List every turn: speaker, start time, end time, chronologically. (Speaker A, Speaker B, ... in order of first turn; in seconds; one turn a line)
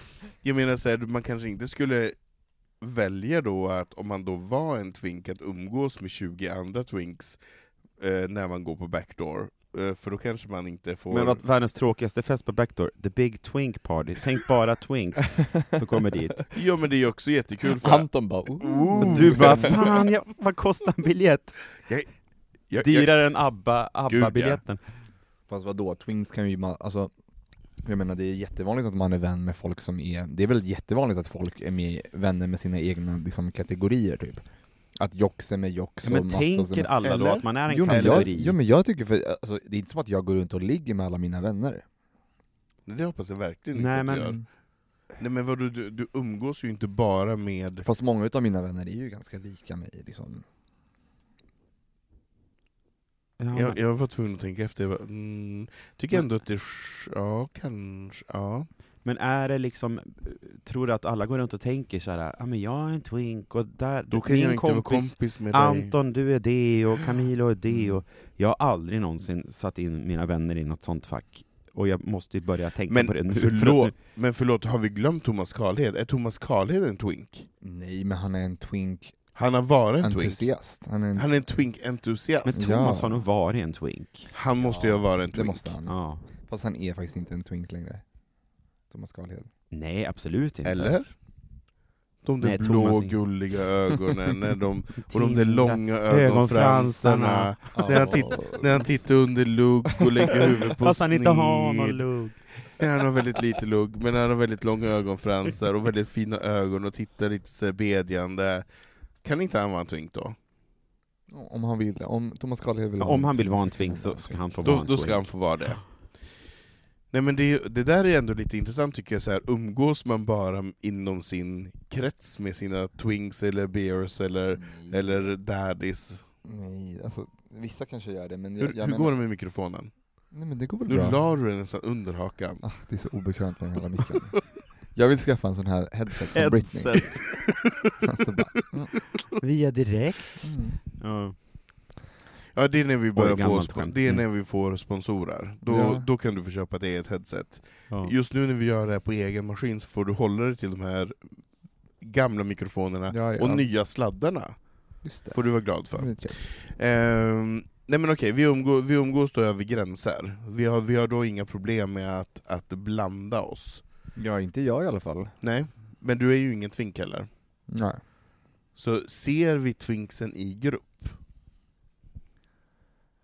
Speaker A: 0.4-11.4
Speaker B: 11.1-16.6
Speaker A: 16.5-20.0
Speaker C: 17.8-19.8
Speaker B: 19.1-22.1
Speaker A: 21.9-23.5
Speaker B: 22.8-24.8
Speaker A: 24.1-24.6
Speaker C: 25.5-27.2
Speaker C: 27.7-36.9
Speaker B: 36.0-38.5
Speaker A: 37.0-38.3
Speaker C: 37.7-41.9
Speaker A: 42.9-47.9
Speaker B: 43.8-44.4
Speaker C: 47.9-50.5
Speaker B: 53.4-53.8
Speaker A: 53.5-58.7
Speaker B: 59.0-74.0
Speaker A: 64.1-65.9
Speaker A: 72.9-77.5
Speaker C: 77.6-79.4
Speaker A: 79.3-82.9
Speaker C: 80.0-81.6
Speaker B: 82.5-84.3
Speaker C: 82.5-83.3
Speaker A: 84.3-85.7
Speaker C: 84.6-88.1
Speaker B: 85.9-86.2
Speaker C: 88.9-89.5
Speaker B: 89.7-91.2
Speaker A: 90.7-91.7
Speaker A: 92.2-102.0
Speaker B: 92.4-93.6
Speaker B: 95.0-98.6
Speaker C: 97.8-99.1
Speaker B: 100.4-102.7
Speaker A: 102.8-110.4
Speaker C: 111.3-115.0
Speaker B: 113.0-115.9
Speaker A: 114.6-116.3
Speaker A: 117.1-126.3
Speaker C: 124.5-125.3
Speaker C: 126.4-129.1
Speaker A: 128.6-132.8
Speaker C: 130.3-131.3
Speaker C: 132.6-137.4
Speaker B: 136.3-137.5
Speaker C: 138.2-138.9
Speaker B: 139.4-141.4
Speaker C: 140.4-140.8
Speaker A: 142.5-163.9
Speaker B: 143.1-144.2
Speaker C: 145.7-146.1
Speaker C: 153.1-153.7
Speaker C: 155.0-156.5
Speaker C: 164.2-165.4
Speaker A: 165.4-167.3
Speaker C: 167.7-168.0
Speaker A: 168.8-171.2